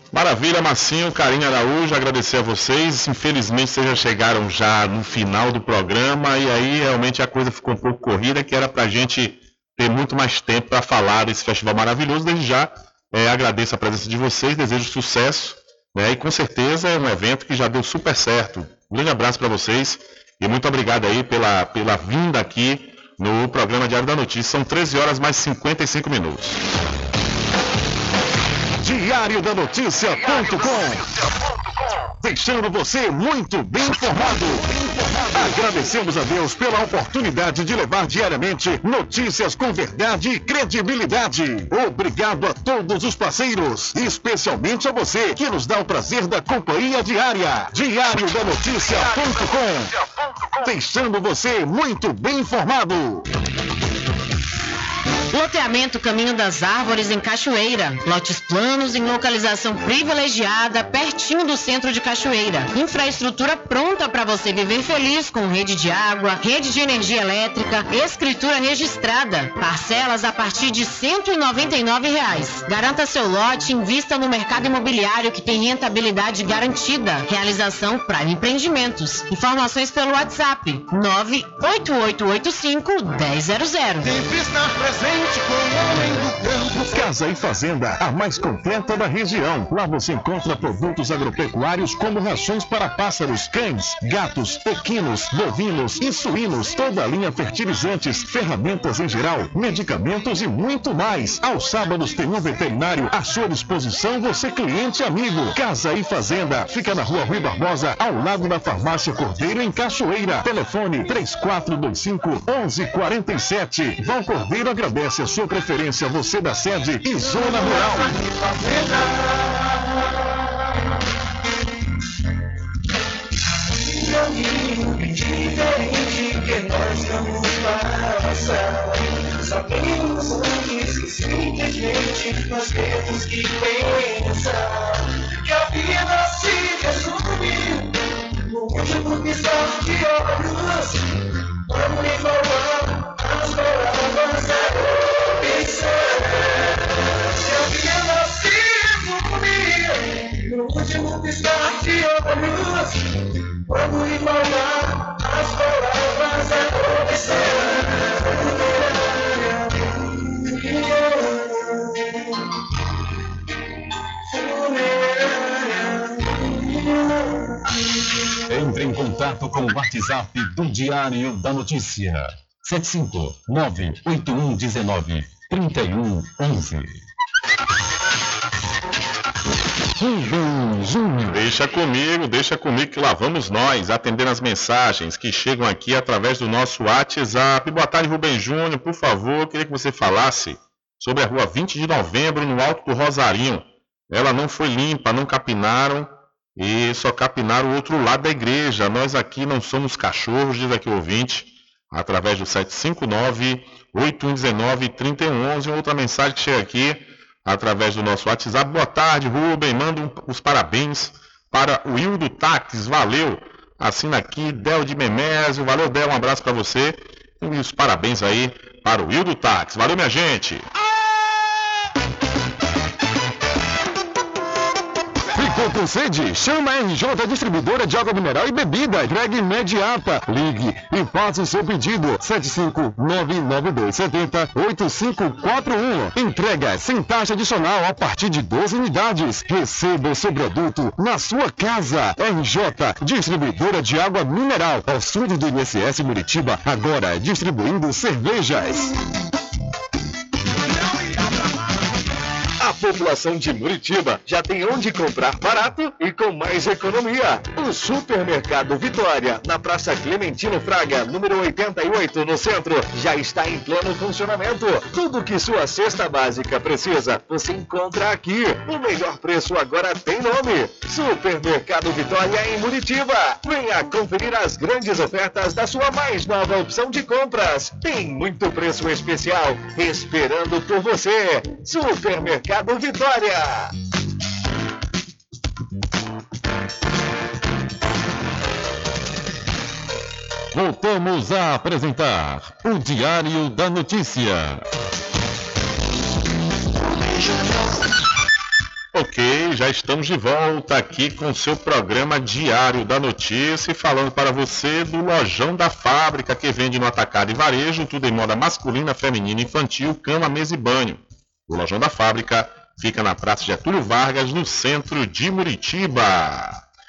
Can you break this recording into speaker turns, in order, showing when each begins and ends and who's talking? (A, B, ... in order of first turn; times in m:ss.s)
0:00.1-0:26.6 A
0:28.8-0:31.1 B
0:32.2-0:50.0 B
0:50.6-0:53.3 B
0:55.3-1:24.1 C
1:24.0-1:27.0 D
1:26.9-1:58.2 B
1:57.5-1:59.6 D
2:03.8-2:21.1 D
2:21.7-2:24.8 D
2:25.4-2:26.6 D
2:27.3-2:33.1 D
2:33.7-2:39.7 D
2:40.7-2:41.2 D
2:44.4-2:45.5 D
2:48.5-2:57.0 E
3:00.0-3:01.3 E
3:01.3-3:40.7 A
3:45.3-4:08.9 B
4:10.9-4:11.6 D
4:12.6-4:43.7 F
4:50.5-4:54.6 E
4:58.9-5:16.6 A